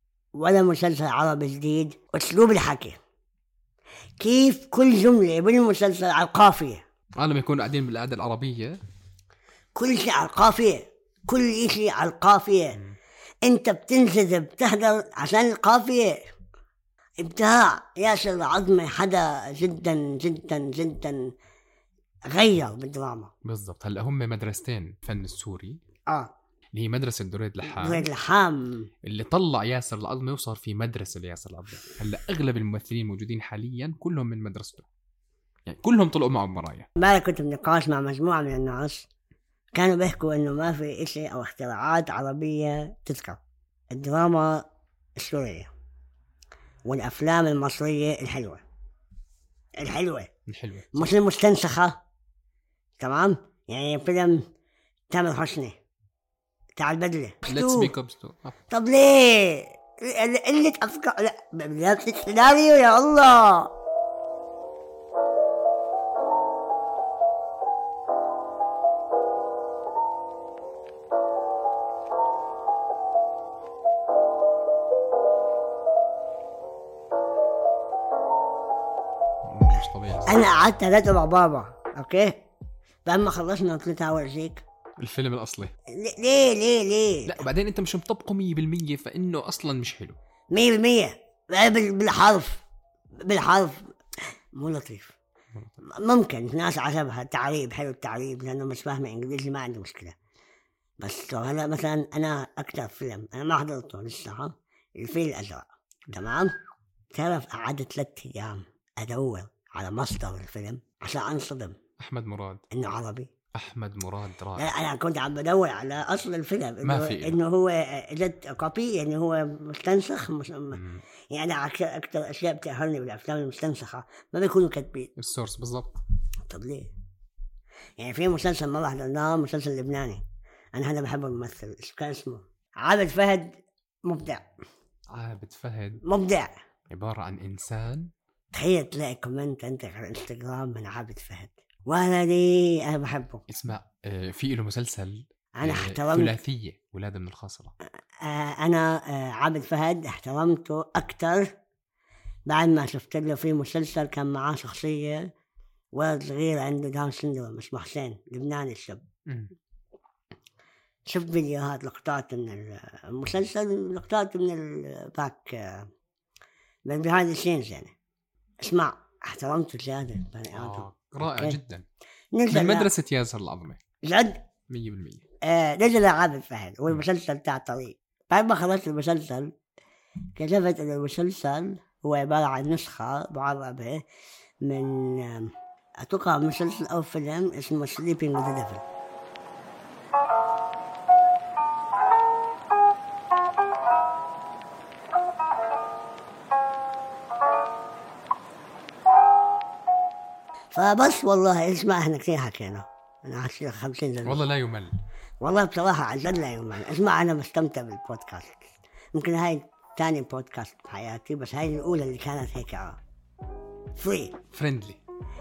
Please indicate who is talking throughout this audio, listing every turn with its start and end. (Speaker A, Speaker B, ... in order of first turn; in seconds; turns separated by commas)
Speaker A: 0.4-3.0, Speaker A: 4.2-6.8, Speaker B: 7.2-8.8, Speaker A: 9.8-12.8, Speaker A: 13.4-16.2, Speaker A: 17.2-21.3, Speaker A: 22.3-23.3, Speaker B: 23.4-25.8, Speaker B: 26.7-28.1, Speaker A: 27.6-28.9, Speaker B: 29.0-34.9, Speaker B: 35.7-36.9, Speaker A: 37.0-39.1, Speaker A: 39.8-43.4, Speaker A: 43.9-44.6, Speaker A: 45.2-45.7, Speaker A: 46.9-48.6, Speaker A: 49.8-50.3, Speaker B: 50.5-51.1, Speaker A: 50.9-52.0, Speaker A: 53.0-54.5, Speaker A: 55.1-55.8, Speaker A: 56.8-57.9, Speaker B: 57.5-58.6, Speaker A: 58.7-63.7, Speaker B: 79.5-80.5, Speaker A: 80.3-82.4, Speaker A: 83.1-84.6, Speaker B: 85.0-85.7, Speaker A: 85.9-87.5, Speaker B: 87.3-90.2, Speaker A: 90.5-92.6, Speaker A: 93.2-93.9, Speaker A: 94.5-95.2, Speaker A: 95.8-100.2, Speaker A: 101.0-106.5, Speaker A: 107.1-111.8, Speaker B: 112.0-112.6, Speaker A: 112.7-113.3, Speaker B: 113.5-114.7, Speaker A: 114.6-125.1, Speaker B: 116.8-117.4, Speaker B: 120.7-121.0, Speaker B: 125.2-126.0, Speaker A: 126.5-126.9, Speaker A: 128.0-130.2, Speaker A: 130.7-134.4, Speaker B: 135.1-136.0, Speaker A: 136.0-136.5, Speaker B: 136.9-138.1, Speaker A: 138.5-143.4, Speaker B: 143.5-147.7, Speaker A: 145.6-146.3, Speaker A: 148.2-151.5, Speaker A: 152.5-155.3, Speaker A: 155.9-159.0, Speaker B: 159.3-159.5, Speaker A: 161.1-165.9, Speaker A: 166.9-167.9, Speaker A: 168.6-171.6, Speaker B: 170.5-171.9, Speaker A: 172.3-172.9, Speaker B: 172.5-173.8, Speaker A: 174.0-174.4, Speaker B: 174.7-175.2, Speaker A: 175.4-179.5, Speaker A: 180.4-184.0, Speaker A: 184.6-188.8, Speaker A: 200.7-204.4, Speaker B: 204.2-204.9, Speaker A: 205.4-213.0, Speaker A: 214.0-214.4, Speaker B: 214.5-215.0